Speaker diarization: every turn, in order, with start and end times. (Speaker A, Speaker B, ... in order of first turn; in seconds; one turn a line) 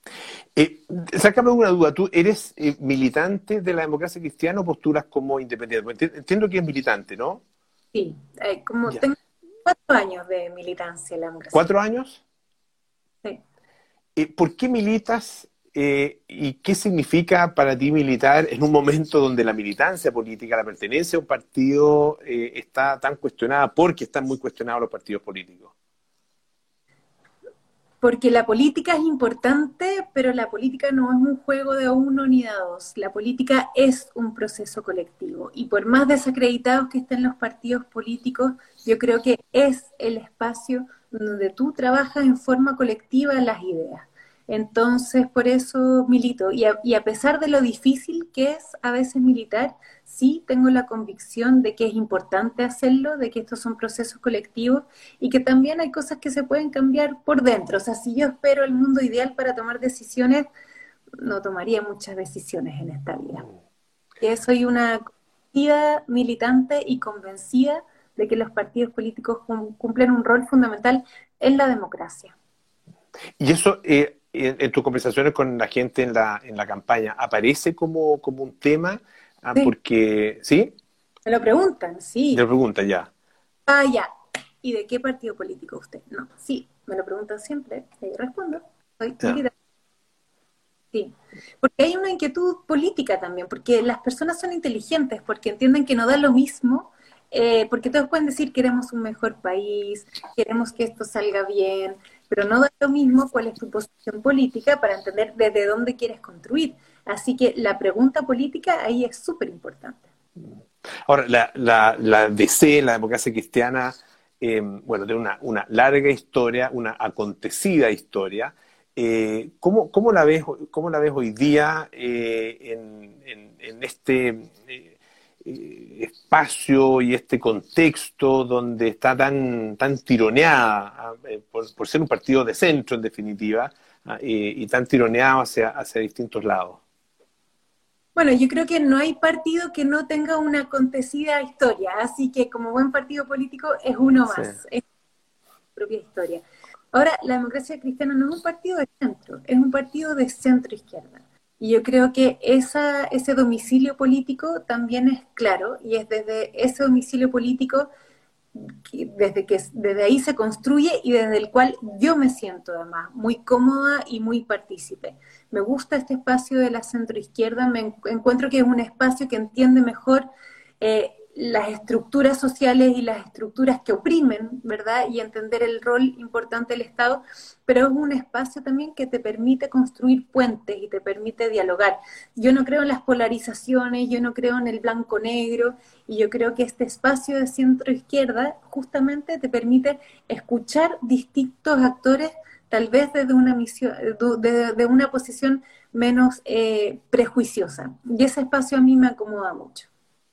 Speaker A: 0.6-7.4
Speaker B: 7.9-11.7
Speaker A: 11.5-12.2
Speaker A: 14.2-25.7
Speaker B: 28.0-60.5
Speaker B: 61.2-63.5
Speaker B: 64.2-72.3
Speaker A: 73.4-80.8
Speaker B: 81.3-82.4
Speaker A: 82.3-83.1
Speaker B: 83.7-84.1
Speaker B: 84.6-89.5
Speaker B: 90.9-110.0
Speaker A: 111.1-124.9
Speaker A: 125.4-136.8
Speaker B: 138.2-144.8
Speaker B: 145.8-157.9
Speaker B: 158.5-170.3
Speaker B: 170.8-199.9